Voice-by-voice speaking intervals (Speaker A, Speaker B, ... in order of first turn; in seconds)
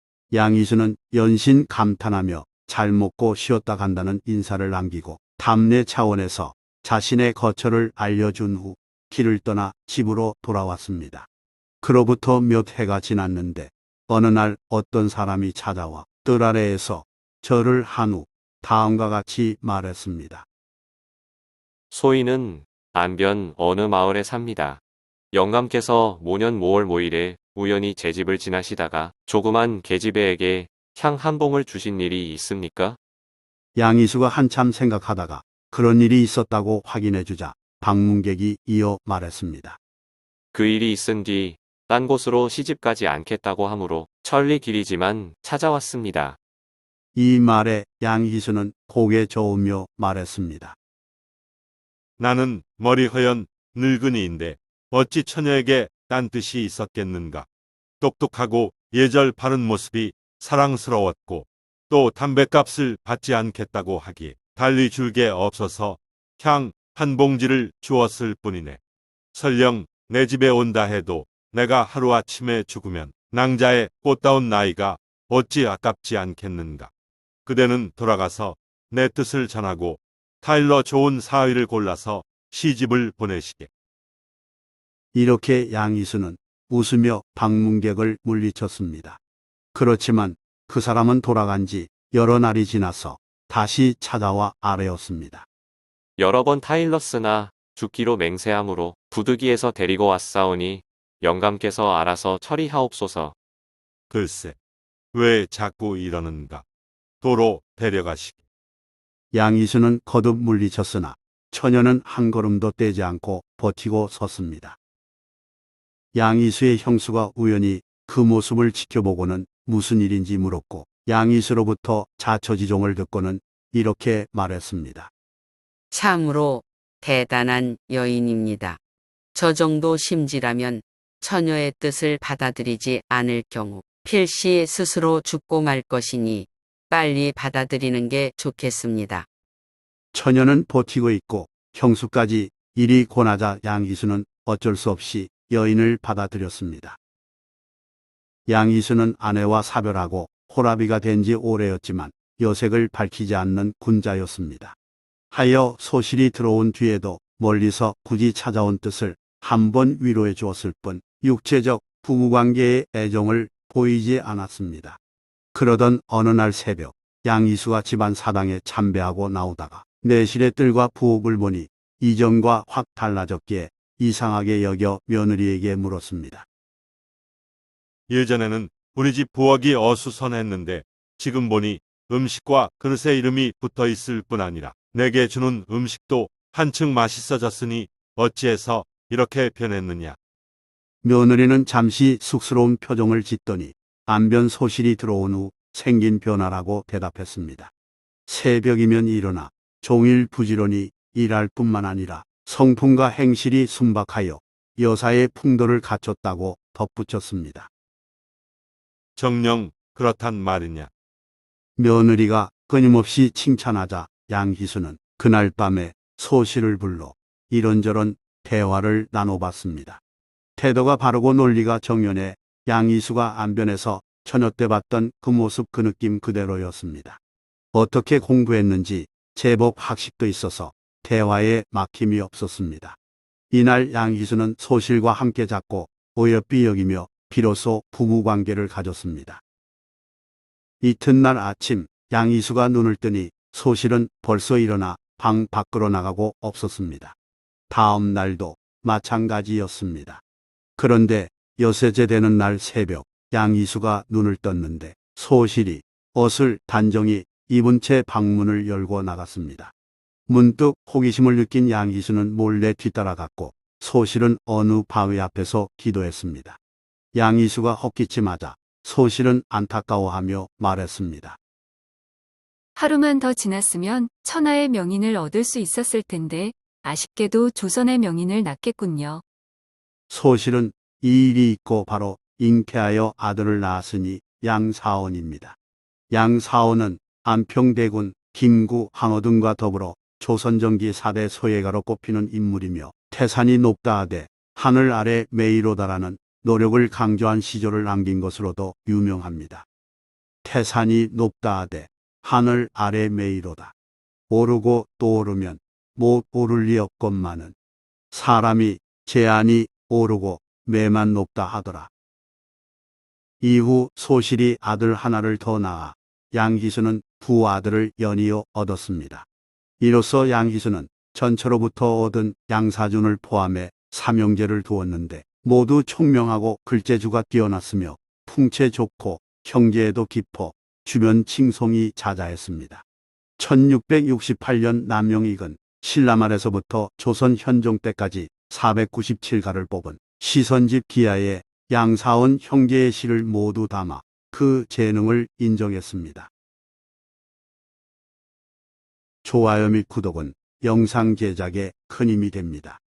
Speaker A: 0.3-11.3, 11.8-20.5, 33.8-39.8, 47.1-50.8, 85.1-89.2, 89.7-95.5, 109.3-114.8, 116.1-125.1, 140.1-147.0, 148.5-154.8, 155.3-165.0, 165.5-176.5, 191.0-197.7, 198.3-207.7, 211.8-220.0, 220.6-227.2, 227.7-233.0, 233.5-239.4, 240.8-247.2, 247.7-250.2, 250.8-259.7, 260.3-266.6, 267.1-271.4, 280.1-285.6, 286.1-299.7, 300.4-303.7, 304.3-307.6, 308.1-311.9, 313.4-319.3, 319.8-332.9, 333.4-346.3, 349.2-352.8
Speaker B: 21.9-24.8, 25.3-33.0, 40.5-46.4, 96.2-103.3
Speaker C: 52.2-57.5, 58.0-68.8, 69.3-76.9, 77.5-83.7, 104.1-104.6, 105.1-106.7, 107.2-108.4, 178.1-190.2, 209.2-210.9
Speaker D: 125.9-128.8, 129.3-139.3
Speaker E: 272.8-279.2